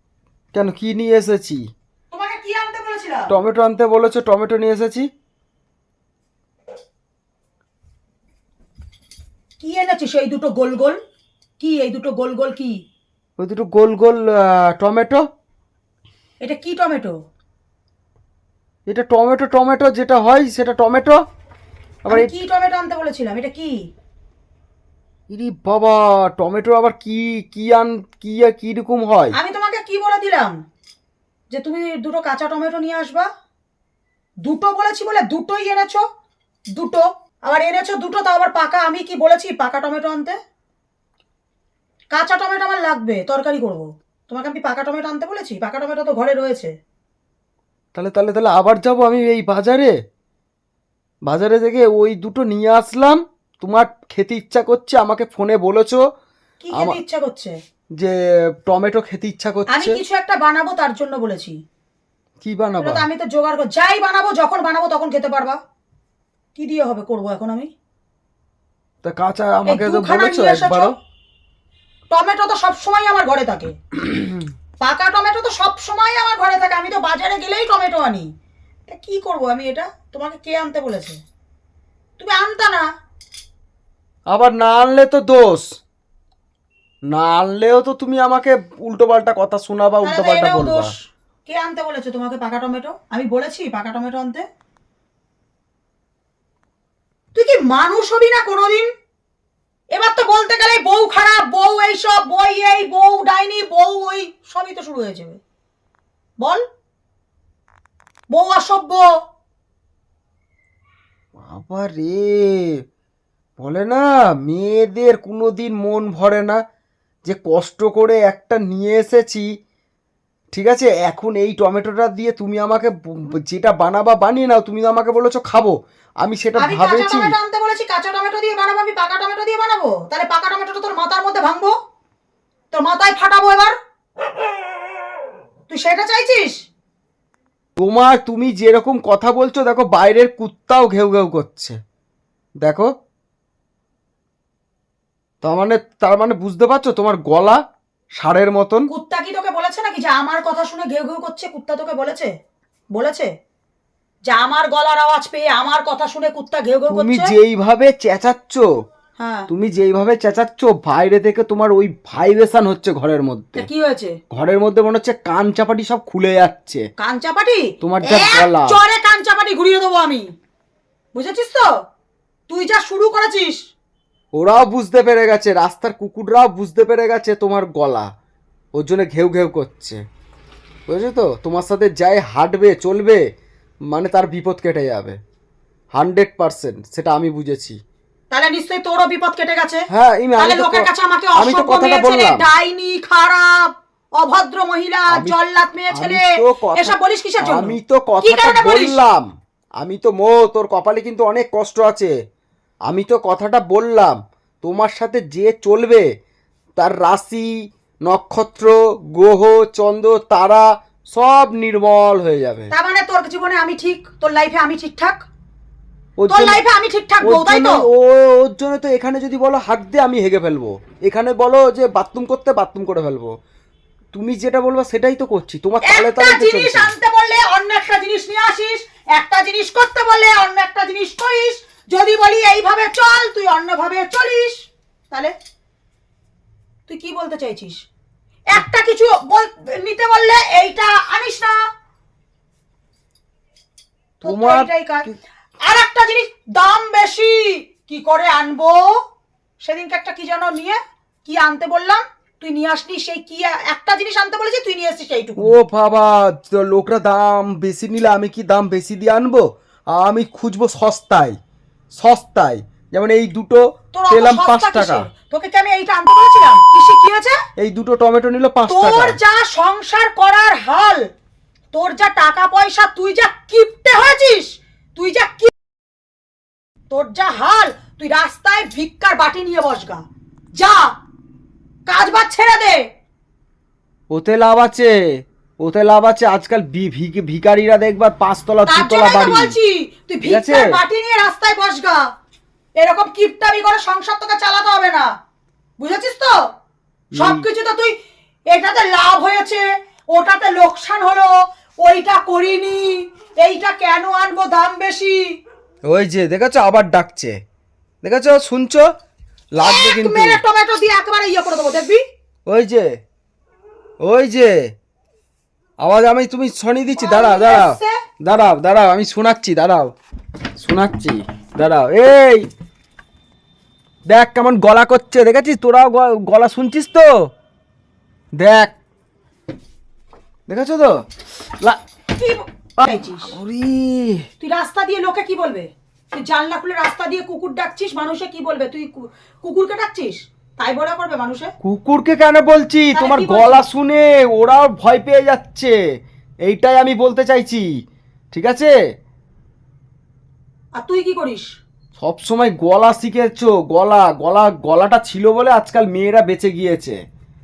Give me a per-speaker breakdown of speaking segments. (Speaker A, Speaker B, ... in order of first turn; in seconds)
Speaker A: 0.5-1.6, 3.3-5.1, 13.4-15.2, 18.9-21.2, 22.1-22.3, 25.3-29.3, 48.0-49.9, 51.3-56.0, 58.0-60.0, 62.4-63.0, 69.0-70.9, 74.0-74.3, 84.3-85.7, 87.1-90.9, 111.4-112.8, 113.6-116.6, 117.2-119.5, 120.5-127.3, 137.8-141.8, 142.6-142.9, 145.4-147.6, 148.2-148.9, 156.9-158.7, 159.5-163.7, 164.3-166.8, 167.8-168.8, 174.3-178.1, 178.8-180.0, 180.9-183.2, 183.9-185.2, 186.0-187.8, 189.9-192.5, 195.1-195.4, 195.9-199.2, 199.8-202.1, 202.9-206.1, 206.8-207.5, 208.1-212.7, 216.2-216.6, 217.2-223.3, 224.1-226.9, 244.2-245.2, 255.4-261.4, 261.9-265.1, 267.6-269.2, 284.1-284.9, 285.6-289.5, 290.2-290.8, 297.1-297.4, 305.9-307.4, 308.0-308.9, 309.5-310.4, 312.5-312.9, 314.0-314.6, 315.8-319.9, 320.6-322.5, 324.1-327.3, 328.4-328.7, 330.5-331.0, 332.8-334.2, 341.6-345.8, 346.4-347.7, 348.3-348.7, 352.0-356.9
Speaker B: 2.1-3.4, 9.6-11.0, 11.6-12.8, 16.4-17.2, 22.1-23.7, 29.3-30.6, 31.5-33.3, 34.5-36.0, 36.8-40.4, 42.1-46.7, 56.6-57.5, 59.7-61.5, 62.8-65.6, 66.6-67.7, 69.7-70.9, 72.1-73.8, 74.8-78.3, 78.9-81.2, 82.2-82.9, 90.0-91.0, 91.5-94.5, 97.3-98.9, 99.9-105.4, 108.3-109.0, 126.6-131.7, 132.7-133.7, 135.7-136.5, 148.9-152.3, 152.9-153.3, 154.3-157.3, 159.2-159.5, 163.6-164.2, 167.0-170.3, 171.1-171.7, 172.5-173.6, 188.3-189.8, 190.4-199.0, 212.7-215.2, 216.3-217.8, 225.8-235.3, 236.9-237.8, 238.5-241.6, 244.2-245.1, 245.7-248.9, 249.6-255.6, 263.9-267.4, 268.7-271.1, 271.7-275.5, 276.9-280.0, 280.6-280.9, 281.9-282.8, 288.7-292.0, 292.8-295.1, 295.8-296.3, 297.1-297.9, 298.5-301.3, 301.8-305.2, 309.6-312.0, 317.0-317.9, 332.2-333.4, 334.4-341.5, 342.9-343.6, 350.8-351.5